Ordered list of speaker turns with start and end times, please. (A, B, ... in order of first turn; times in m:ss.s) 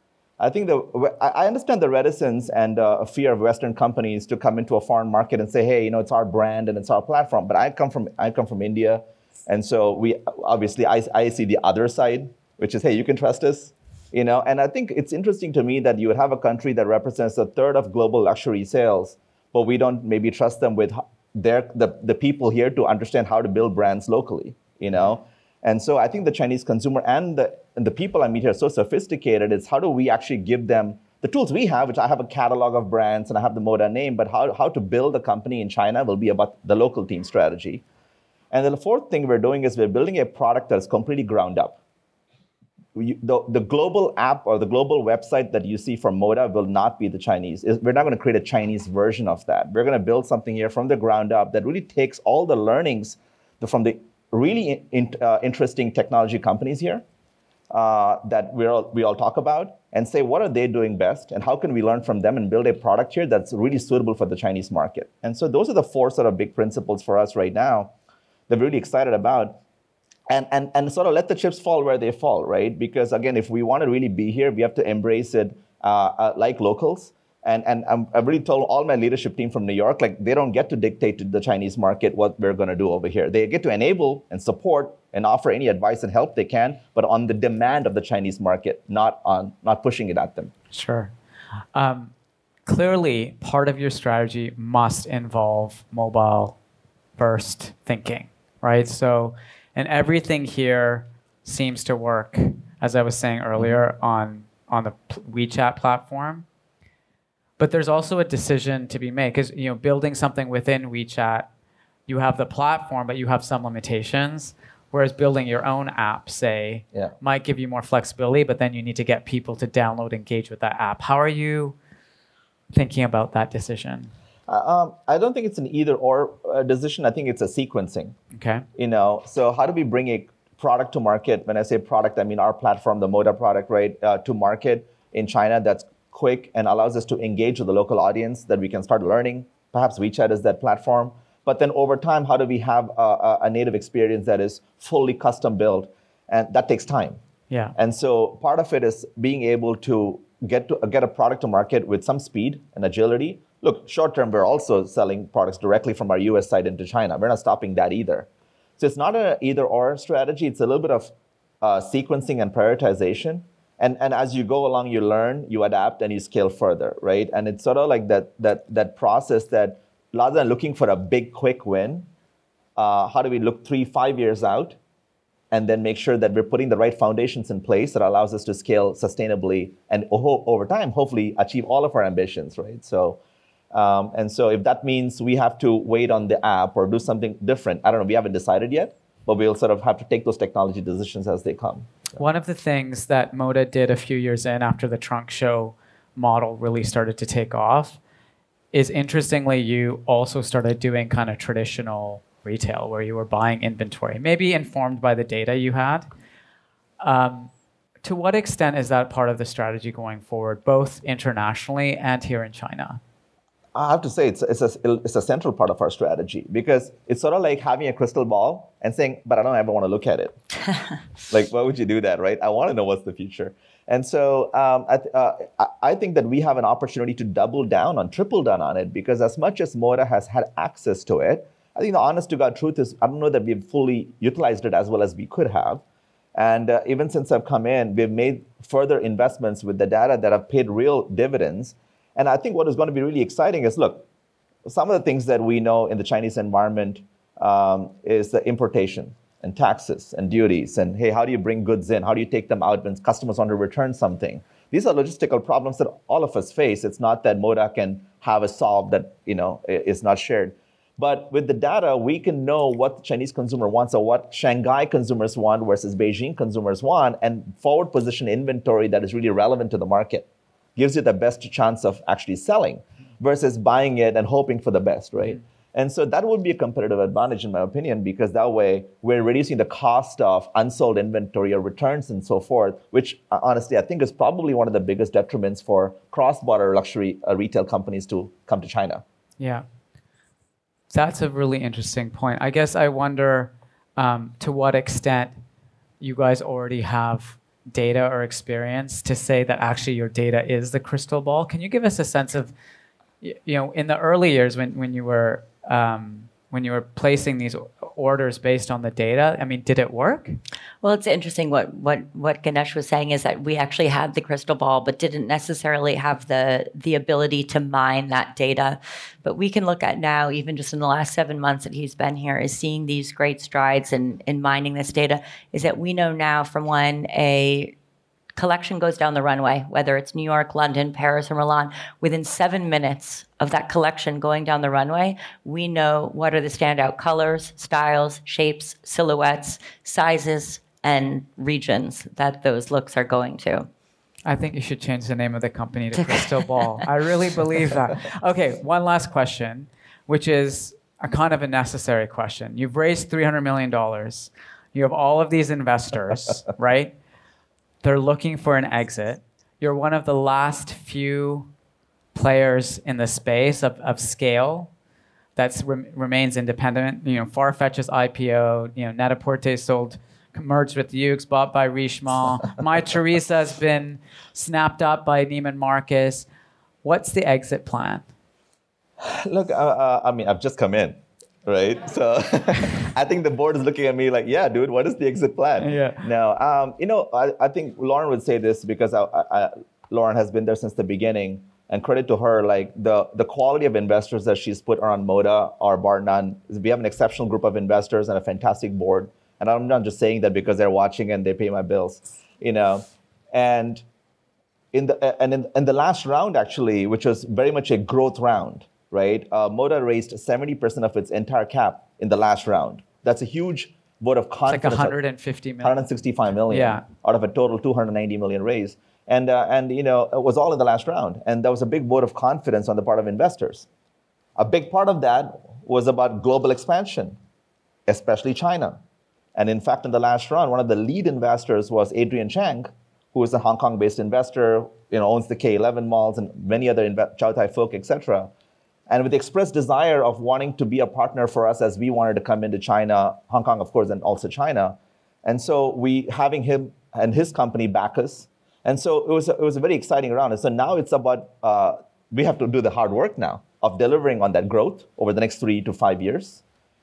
0:00.4-0:37.8 A
0:38.5-0:41.8 A
0:42.9-0:57.0 A
0:57.7-1:07.9 A
1:08.5-1:09.6 A
1:10.3-1:30.5 A
1:30.7-1:31.1 B
1:31.8-1:32.1 B
1:32.6-1:36.6 B
1:37.2-1:46.4 B
1:47.6-1:51.5 B
1:52.1-2:01.8 B
2:02.7-2:04.1 B
2:04.5-2:08.2 A
2:08.3-2:08.6 B
2:08.8-2:27.2 A
2:27.5-2:27.8 B
2:27.8-2:52.1 A
2:52.8-2:54.8 A
2:55.5-3:03.2 A
3:03.7-3:12.0 A
3:12.2-3:18.0 B
3:18.7-3:26.1 B
3:27.0-3:27.5 B
3:28.0-3:33.0 B
3:33.7-3:40.4 A
3:41.3-3:55.8 A
3:56.4-4:04.1 A
4:04.6-4:49.0 A
4:49.4-4:49.6 B
4:50.9-4:55.4 B
4:56.0-5:02.5 B
5:03.2-5:10.4 B
5:10.8-5:27.7 C
5:28.4-5:43.7 C
5:44.3-5:56.9 B
5:46.0-5:46.8 C
5:57.8-6:01.5 B
6:02.1-6:04.7 B
6:05.4-6:16.3 B
6:16.8-6:18.0 B
6:19.0-6:43.8 A
6:25.6-6:26.0 B
6:44.7-6:55.0 A
6:54.5-6:55.8 B
6:55.6-7:03.7 A
6:56.5-6:56.8 B
7:04.4-7:07.2 A
7:07.9-7:08.8 A
7:09.4-7:18.3 A
7:18.9-7:36.4 A